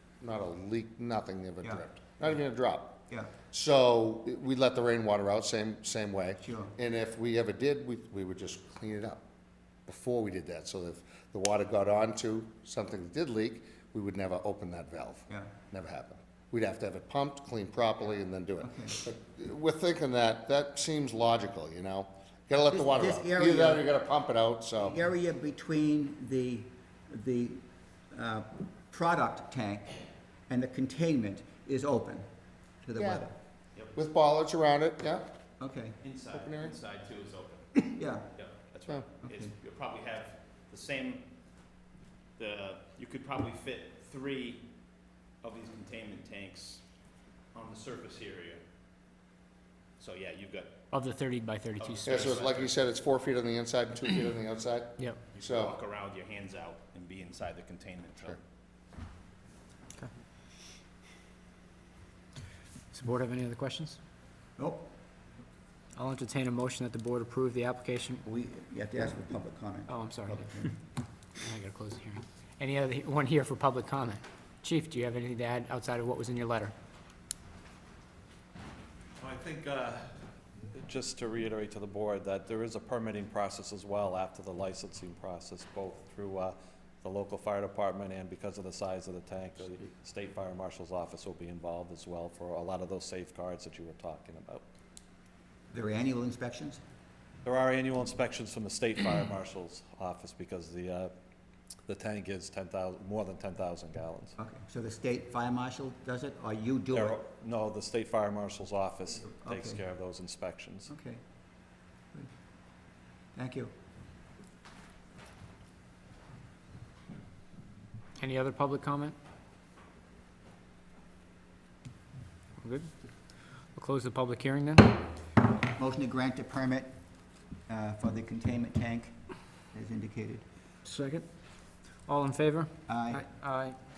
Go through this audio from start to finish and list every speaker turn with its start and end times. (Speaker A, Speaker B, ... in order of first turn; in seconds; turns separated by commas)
Speaker A: 0.2-9.2, Speaker B: 6.4-6.7, Speaker A: 9.8-25.0, Speaker B: 18.6-19.0, Speaker B: 22.7-23.9, Speaker B: 24.8-30.0, Speaker B: 30.5-32.2, Speaker B: 32.8-33.3, Speaker A: 33.0-33.2, Speaker A: 33.9-35.2, Speaker B: 35.6-36.0, Speaker C: 36.0-41.2, Speaker A: 36.3-36.7, Speaker B: 37.9-38.2, Speaker B: 39.2-39.5, Speaker C: 42.4-44.6, Speaker C: 45.4-46.8, Speaker C: 47.5-48.6, Speaker C: 50.0-50.8, Speaker D: 50.9-52.3, Speaker C: 51.8-52.7, Speaker A: 52.0-55.8, Speaker C: 55.3-58.4, Speaker D: 62.9-64.0, Speaker B: 64.6-64.9, Speaker D: 66.0-68.2, Speaker B: 68.2-70.7, Speaker D: 69.9-70.6, Speaker D: 71.4-76.7, Speaker E: 79.2-80.0, Speaker E: 80.8-94.6, Speaker B: 95.7-96.8, Speaker E: 97.4-101.1, Speaker E: 101.9-104.3, Speaker B: 104.4-107.2, Speaker E: 106.9-110.9, Speaker B: 109.3-109.8, Speaker B: 110.9-111.2, Speaker B: 113.3-113.7, Speaker D: 118.2-119.1, Speaker D: 122.6-122.9, Speaker D: 123.7-125.0, Speaker B: 125.6-126.9, Speaker B: 127.7-129.2, Speaker B: 129.7-130.4, Speaker D: 130.8-131.2, Speaker D: 132.0-133.8, Speaker B: 132.9-133.2